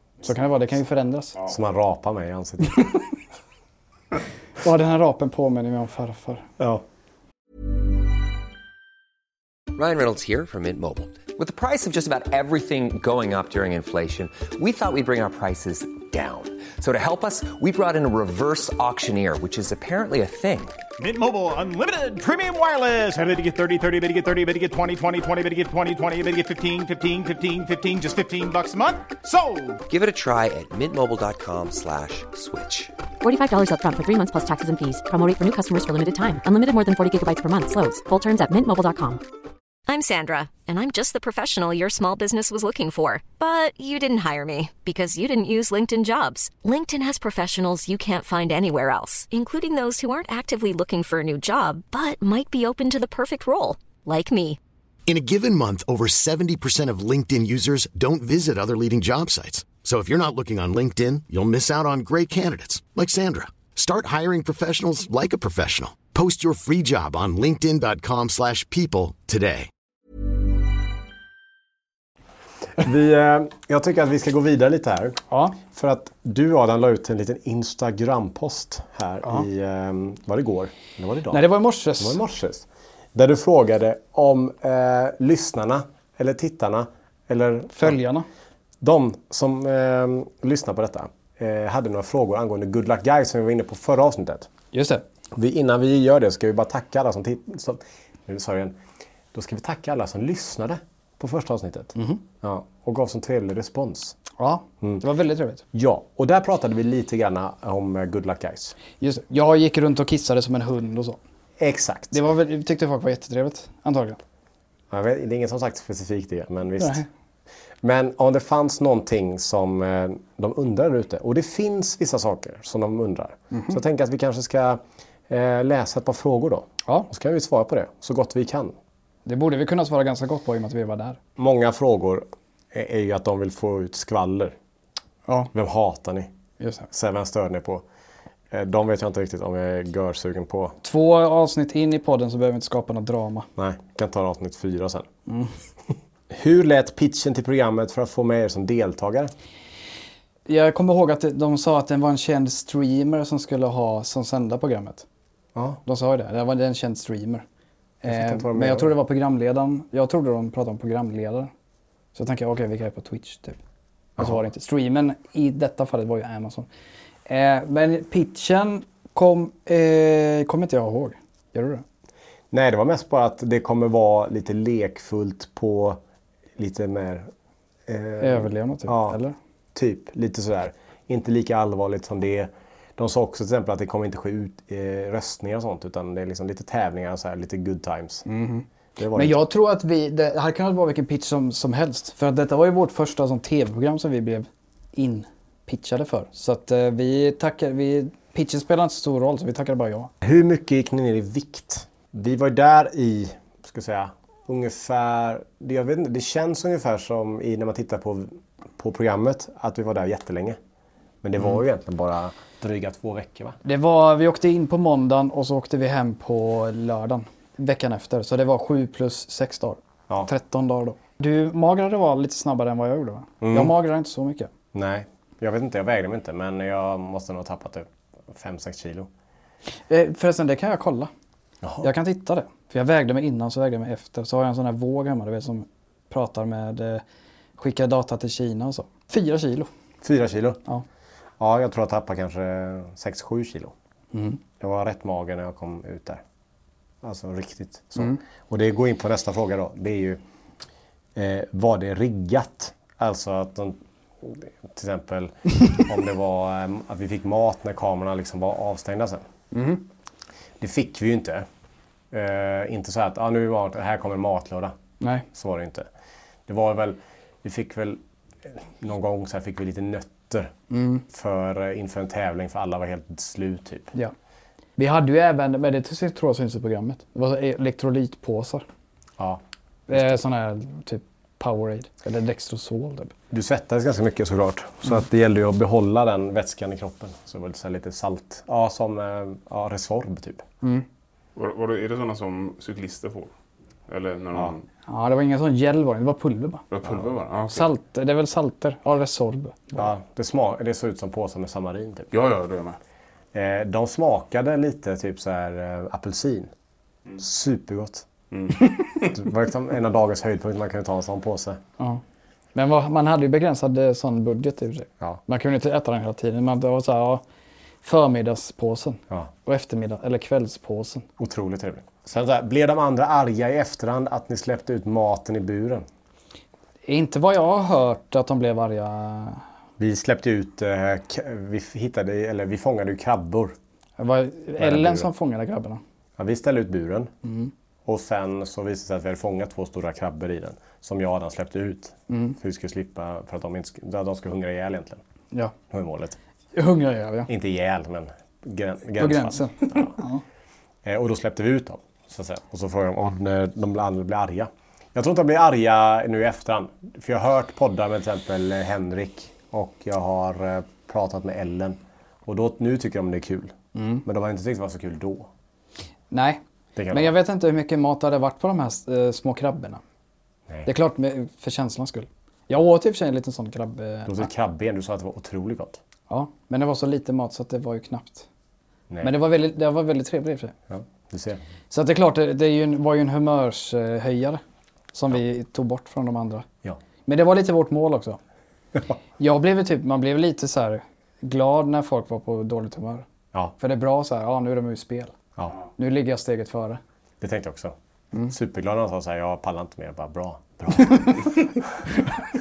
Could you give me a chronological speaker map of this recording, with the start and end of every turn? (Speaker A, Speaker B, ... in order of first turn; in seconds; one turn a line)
Speaker A: 0.2-1.4
Speaker B: 1.4-3.0
Speaker A: 4.6-6.5
Speaker B: 6.6-6.8
Speaker C: 9.7-20.8
Speaker D: 21.0-29.8
Speaker C: 29.9-32.9
Speaker E: 33.2-39.2
Speaker F: 39.9-54.6
Speaker G: 55.1-69.7
Speaker B: 72.8-88.0
Speaker A: 75.3-75.6
Speaker A: 81.3-82.2
Speaker A: 87.7-88.3
Speaker B: 88.8-94.5
Speaker A: 94.7-95.0
Speaker B: 95.3-98.8
Speaker B: 99.3-104.2
Speaker A: 101.9-102.2
Speaker A: 104.4-105.6
Speaker B: 105.7-108.8
Speaker A: 109.0-111.2
Speaker B: 111.6-112.2
Speaker A: 112.1-114.2
Speaker B: 114.9-117.0
Speaker A: 116.8-117.0
Speaker B: 117.8-128.8
Speaker A: 123.5-123.8
Speaker A: 129.2-131.2
Speaker B: 131.4-134.6
Speaker B: 135.5-136.3
Speaker A: 136.6-136.9
Speaker B: 136.9-137.8
Speaker B: 138.5-140.8
Speaker A: 140.8-143.5
Speaker B: 143.6-145.1
Speaker A: 145.3-145.5
Speaker B: 146.3-149.3
Speaker A: 150.5-155.0
Speaker B: 155.5-155.8
Speaker A: 155.8-157.4
Speaker A: 158.0-161.5
Speaker B: 158.0-158.9
Speaker A: 162.1-163.6
Speaker B: 164.2-164.4
Speaker A: 164.2-166.7
Speaker A: 167.3-171.8
Speaker B: 172.5-176.0
Speaker B: 176.6-177.3
Speaker B: 177.8-179.2
Speaker A: 178.2-179.3
Speaker B: 179.7-188.2
Speaker A: 188.2-200.1
Speaker B: 189.0-189.4
Speaker B: 200.2-210.6
Speaker B: 211.2-213.6
Speaker A: 213.6-224.5
Speaker B: 223.4-223.7
Speaker B: 224.7-229.1
Speaker A: 229.9-231.1
Speaker B: 231.6-231.9
Speaker A: 231.8-237.0
Speaker A: 237.6-239.7
Speaker B: 240.0-240.6
Speaker B: 241.4-243.7
Speaker A: 244.1-244.4
Speaker B: 244.6-246.2
Speaker B: 247.0-250.2
Speaker B: 251.1-259.2
Speaker A: 259.5-259.8
Speaker B: 260.6-261.4
Speaker B: 262.1-264.7
Speaker B: 265.3-265.9
Speaker B: 266.5-270.5
Speaker A: 270.7-271.0
Speaker B: 271.1-273.9
Speaker A: 274.8-278.6
Speaker B: 279.2-280.1
Speaker A: 279.9-283.1
Speaker B: 283.3-290.4
Speaker H: 291.4-293.3
Speaker H: 293.9-294.6
Speaker A: 294.9-296.6
Speaker H: 296.7-297.7
Speaker A: 297.5-299.8
Speaker B: 299.7-302.1
Speaker H: 302.1-302.8
Speaker B: 303.3-306.5
Speaker B: 307.2-308.1
Speaker H: 308.3-309.1
Speaker B: 309.0-311.6
Speaker A: 312.5-317.2
Speaker A: 317.8-321.1
Speaker B: 321.2-325.9
Speaker A: 326.9-329.4
Speaker B: 329.8-333.6
Speaker A: 334.0-335.8
Speaker B: 334.6-335.1
Speaker B: 336.2-337.1
Speaker A: 337.2-337.5
Speaker B: 337.9-345.0
Speaker A: 342.1-342.4
Speaker B: 345.7-346.2
Speaker A: 346.5-347.3
Speaker B: 347.3-350.0
Speaker A: 349.0-350.2
Speaker B: 350.8-365.3
Speaker A: 363.7-364.0
Speaker A: 366.1-369.8
Speaker B: 366.8-367.1
Speaker A: 370.6-374.3
Speaker B: 374.1-375.8
Speaker A: 376.1-378.3
Speaker A: 379.0-380.5
Speaker B: 380.7-381.4
Speaker A: 381.7-384.4
Speaker A: 384.9-386.4
Speaker A: 387.0-388.2
Speaker A: 389.2-393.0
Speaker A: 393.6-395.1
Speaker A: 395.8-396.8
Speaker B: 397.2-397.7
Speaker B: 398.3-401.8